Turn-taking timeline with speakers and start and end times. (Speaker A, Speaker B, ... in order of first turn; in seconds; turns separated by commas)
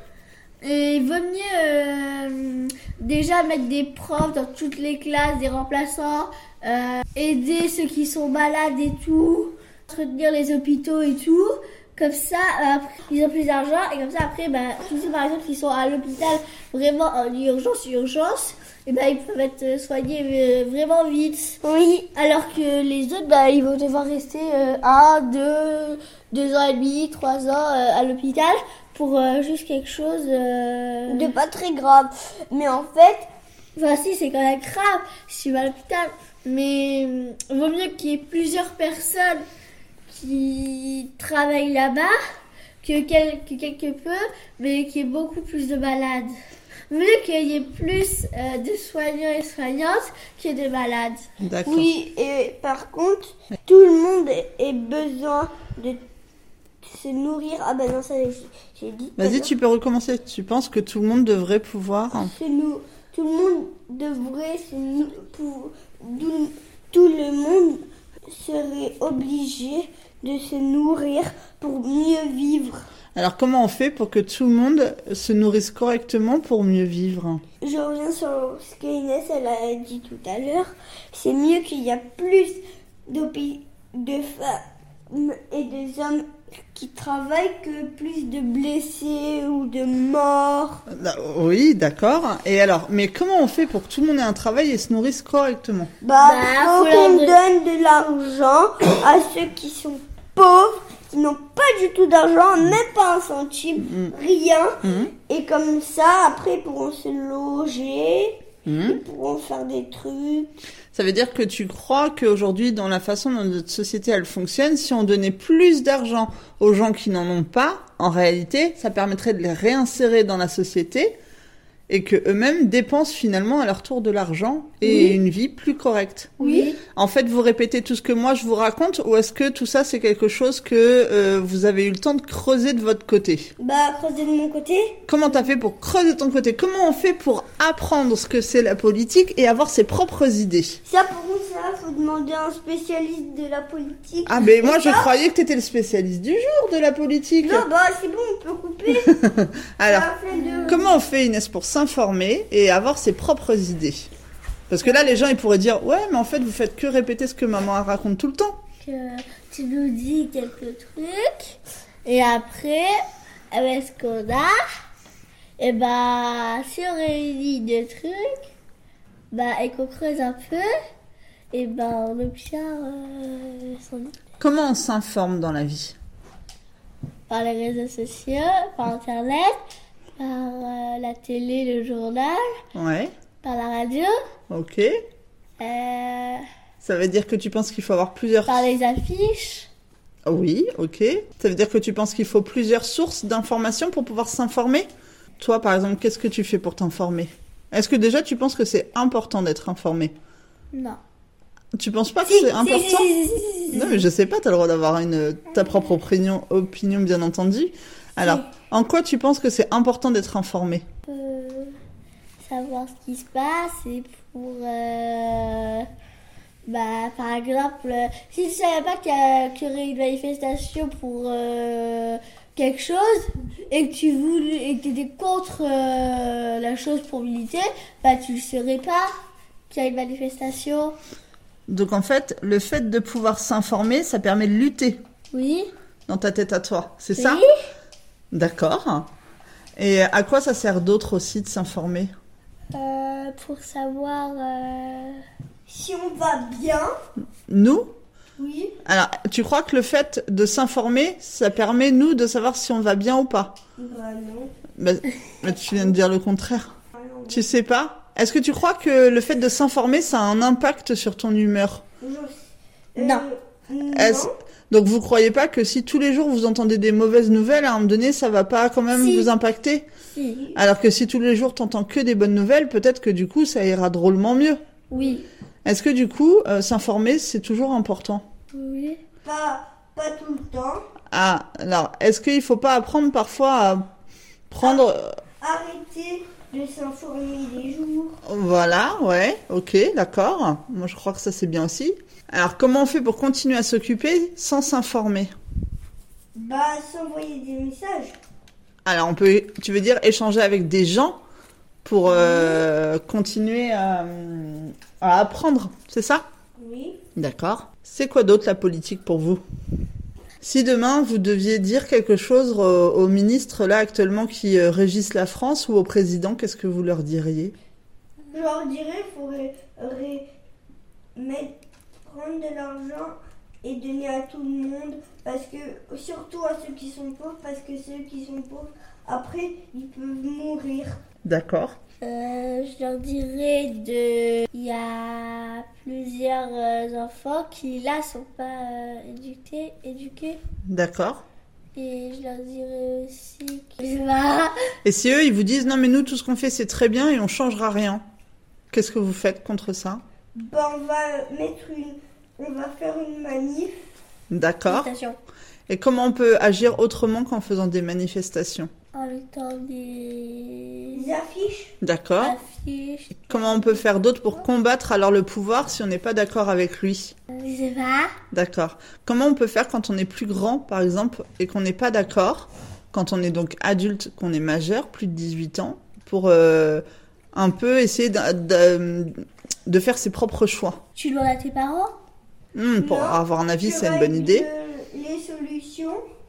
Speaker A: 0.6-21.6, Speaker B: 21.6-22.1, Speaker A: 22.1-31.3, Speaker B: 31.1-33.3, Speaker A: 33.7-39.4, Speaker A: 40.1-42.1, Speaker A: 42.8-46.3, Speaker A: 46.9-51.2, Speaker C: 51.4-51.9, Speaker B: 51.6-56.0, Speaker B: 56.8-59.5, Speaker C: 59.2-62.3, Speaker B: 62.1-72.8, Speaker C: 73.1-77.4, Speaker B: 77.6-90.8, Speaker C: 90.9-95.9, Speaker B: 96.0-110.6, Speaker A: 96.2-97.4, Speaker C: 103.8-104.1, Speaker C: 104.8-105.1, Speaker C: 108.6-109.0, Speaker C: 110.9-121.2, Speaker C: 121.9-133.5, Speaker B: 124.8-125.2, Speaker A: 126.4-126.8, Speaker B: 126.4-126.7, Speaker B: 133.6-135.0, Speaker C: 135.1-140.8, Speaker B: 140.8-145.1, Speaker C: 144.2-147.6, Speaker B: 147.4-149.2, Speaker C: 148.9-150.1, Speaker B: 149.8-150.9, Speaker A: 150.3-150.9, Speaker C: 150.7-154.1, Speaker C: 154.7-158.6, Speaker A: 158.8-162.9, Speaker A: 163.5-164.6, Speaker A: 165.6-168.4, Speaker A: 169.3-170.7, Speaker A: 171.5-174.1, Speaker C: 174.4-176.0, Speaker A: 177.3-179.6, Speaker A: 180.2-182.6, Speaker C: 182.7-183.1, Speaker A: 183.4-184.1, Speaker C: 184.5-184.9, Speaker A: 185.6-186.4, Speaker C: 186.8-188.7, Speaker A: 188.4-189.7, Speaker C: 190.2-200.1, Speaker A: 200.7-201.0, Speaker C: 201.7-203.1, Speaker B: 202.2-204.0, Speaker C: 203.7-210.8, Speaker A: 211.1-211.8, Speaker A: 212.4-215.9, Speaker A: 216.7-229.1, Speaker A: 229.7-230.9, Speaker C: 231.7-235.0, Speaker A: 235.3-235.7, Speaker C: 236.1-237.4, Speaker A: 237.1-237.5, Speaker C: 238.3-239.1, Speaker C: 239.8-242.1, Speaker A: 242.7-245.2, Speaker B: 245.7-246.9, Speaker C: 247.5-247.9, Speaker B: 248.4-248.7, Speaker C: 248.8-253.5, Speaker B: 253.8-254.5, Speaker C: 254.8-256.7, Speaker B: 256.9-257.4, Speaker C: 257.3-261.8, Speaker B: 262.0-264.3, Speaker A: 263.0-263.2, Speaker C: 263.9-269.9, Speaker A: 270.1-270.5, Speaker C: 270.5-274.6, Speaker A: 274.9-275.2, Speaker C: 275.6-278.2, Speaker A: 278.5-279.0, Speaker B: 279.2-280.9, Speaker C: 281.1-283.9, Speaker C: 284.5-285.2, Speaker B: 285.4-288.2, Speaker C: 288.2-295.3, Speaker B: 296.3-298.1, Speaker C: 298.8-301.2, Speaker C: 301.8-306.2, Speaker B: 302.1-302.6, Speaker B: 306.6-307.0, Speaker C: 307.1-309.4, Speaker C: 310.4-317.5, Speaker B: 318.3-320.2, Speaker B: 321.1-330.9, Speaker C: 331.2-331.8, Speaker A: 332.0-340.4, Speaker C: 340.7-341.2, Speaker A: 341.8-344.5, Speaker C: 344.8-348.0, Speaker C: 348.7-350.0, Speaker B: 350.4-353.7, Speaker C: 354.3-354.9, Speaker A: 354.7-355.2, Speaker C: 355.7-358.7, Speaker A: 358.9-361.1, Speaker B: 360.9-361.7, Speaker C: 361.8-362.4, Speaker A: 362.2-364.3, Speaker C: 363.3-367.1, Speaker A: 367.3-368.1, Speaker C: 368.3-380.8, Speaker A: 380.9-381.9, Speaker C: 382.5-384.5, Speaker B: 382.8-386.0